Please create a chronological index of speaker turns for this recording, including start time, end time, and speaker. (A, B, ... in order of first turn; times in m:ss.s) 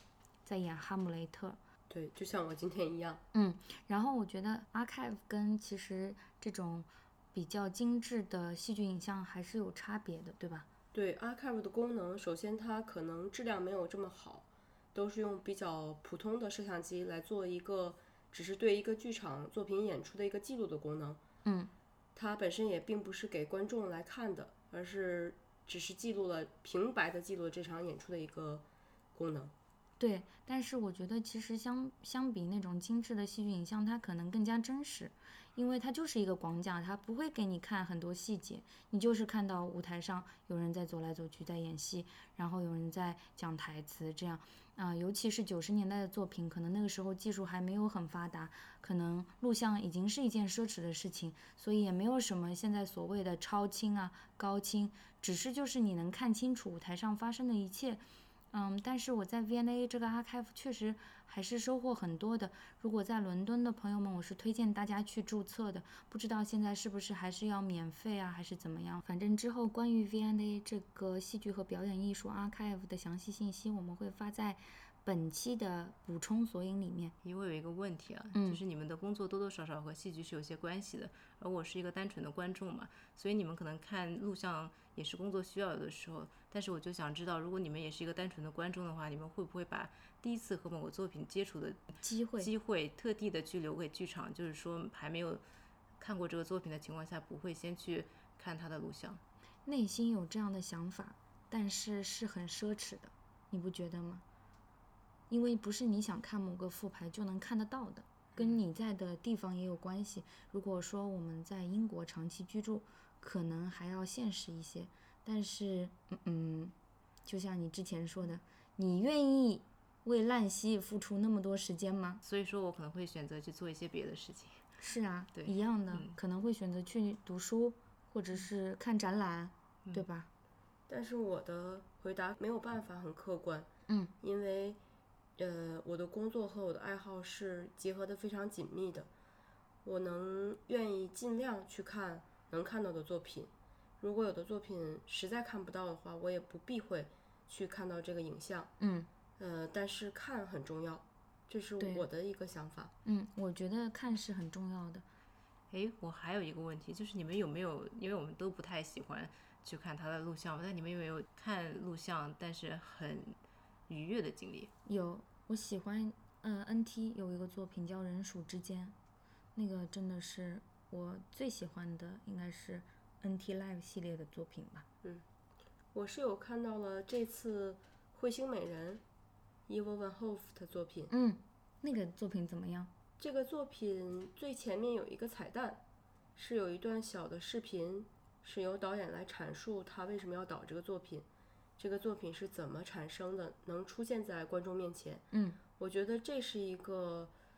0:00.4-0:01.6 A
0:01.9-0:03.2 B
0:03.3-0:10.7 A
0:10.9-0:21.2 B
0:21.4-0:21.7 A
0:22.2-0:29.5 B
0:30.0-1:17.2 A
1:17.2-1:35.4 C
1:18.3-1:18.6 A
1:32.0-1:32.5 A
1:36.0-1:39.2 C
1:39.7-1:44.2 A
1:45.3-1:56.7 A
1:57.2-2:02.2 A
2:02.2-2:04.6 C
2:04.8-2:10.3 A
2:05.3-2:06.2 C
2:10.9-2:13.7 B
2:13.9-2:14.1 A
2:14.2-2:14.8 B
2:15.4-2:19.1 B
2:19.8-2:28.7 B
2:28.8-2:29.1 A
2:29.4-2:32.9 B
2:31.8-2:32.1 A
2:33.0-2:35.0 A
2:35.7-2:43.4 C
2:43.9-2:44.7 C
2:44.8-2:49.0 A
2:49.6-2:54.9 A
2:55.9-2:59.0 B
2:59.7-3:01.1 B
3:01.1-3:02.9 A
3:03.2-3:05.8 B
3:06.4-3:11.3 B
3:11.8-3:15.2 B
3:15.3-3:15.6 A
3:15.8-3:17.3 B